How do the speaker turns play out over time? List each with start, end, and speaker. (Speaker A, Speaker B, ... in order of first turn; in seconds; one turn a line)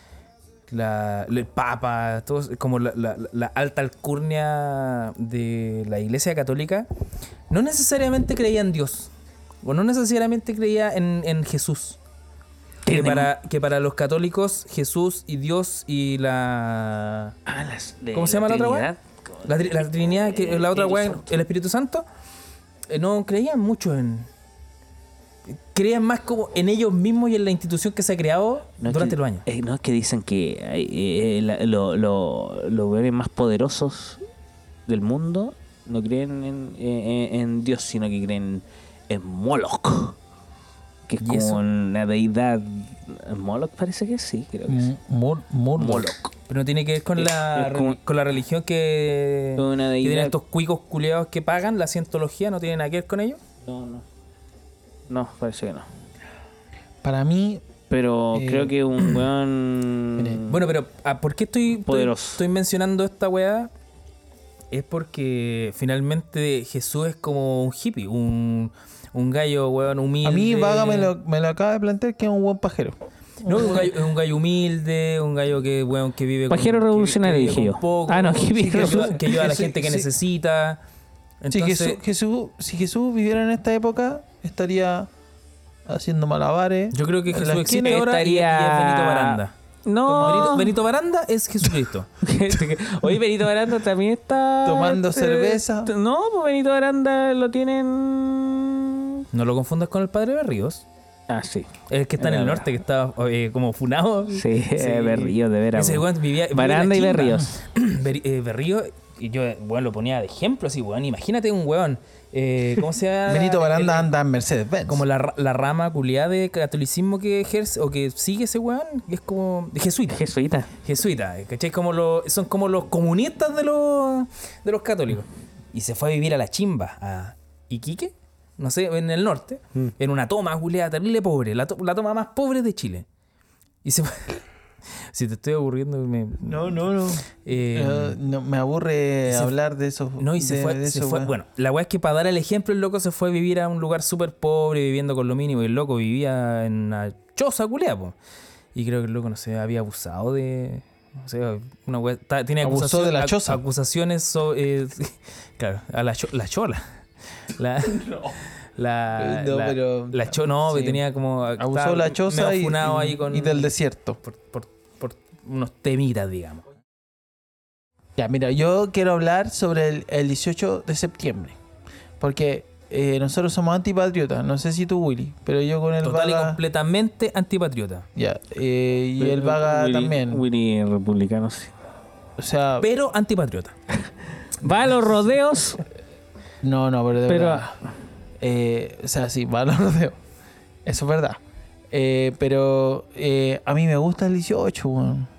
Speaker A: 0.7-6.9
Speaker A: 7.5-9.1
Speaker A: 9.6-12.0
Speaker B: 12.8-13.3
Speaker A: 12.9-17.3
Speaker B: 17.5-21.3
Speaker A: 18.1-18.9
Speaker A: 19.4-22.0
Speaker A: 22.9-24.3
Speaker A: 25.5-29.4
Speaker B: 28.8-34.2
Speaker B: 34.9-40.2
Speaker B: 41.1-44.9
Speaker A: 41.2-41.6
Speaker C: 44.7-46.1
Speaker B: 45.8-46.3
Speaker A: 46.5-53.4
Speaker B: 47.2-48.0
Speaker B: 49.6-50.3
Speaker B: 53.6-54.0
Speaker B: 55.1-55.9
Speaker C: 57.0-57.6
Speaker B: 57.9-60.6
Speaker C: 58.3-58.7
Speaker C: 60.2-60.4
Speaker A: 60.5-63.7
Speaker B: 61.9-62.4
Speaker A: 64.7-71.1
Speaker C: 70.2-73.9
Speaker A: 73.4-80.8
Speaker B: 76.5-79.2
Speaker C: 78.6-80.1
Speaker A: 81.4-82.0
Speaker C: 81.5-85.1
Speaker C: 85.8-87.9
Speaker A: 86.9-89.5
Speaker B: 87.6-90.7
Speaker C: 90.1-90.7
Speaker A: 90.1-92.1
Speaker B: 92.2-99.2
Speaker C: 94.6-95.9
Speaker A: 99.3-100.8
Speaker B: 101.3-102.7
Speaker A: 101.9-114.1
Speaker B: 104.3-107.5
Speaker C: 113.3-115.0
Speaker A: 114.9-120.2
Speaker B: 120.1-120.7
Speaker A: 120.8-133.1
Speaker A: 133.8-134.4
Speaker A: 135.1-138.2
Speaker C: 136.4-141.3
Speaker A: 139.3-139.5
Speaker A: 140.2-148.1
Speaker A: 148.7-156.8
Speaker C: 152.6-153.6
Speaker A: 157.5-163.7
Speaker C: 159.2-161.0
Speaker C: 161.6-164.2
Speaker A: 164.2-166.6
Speaker C: 168.2-171.6
Speaker C: 172.2-176.6
Speaker A: 176.0-178.1
Speaker C: 178.2-180.4
Speaker B: 179.2-181.7
Speaker C: 182.4-182.9
Speaker A: 182.8-183.7
Speaker B: 184.6-185.8
Speaker C: 186.6-187.8
Speaker B: 187.3-187.6
Speaker C: 188.4-190.2
Speaker C: 190.8-191.4
Speaker C: 191.9-195.3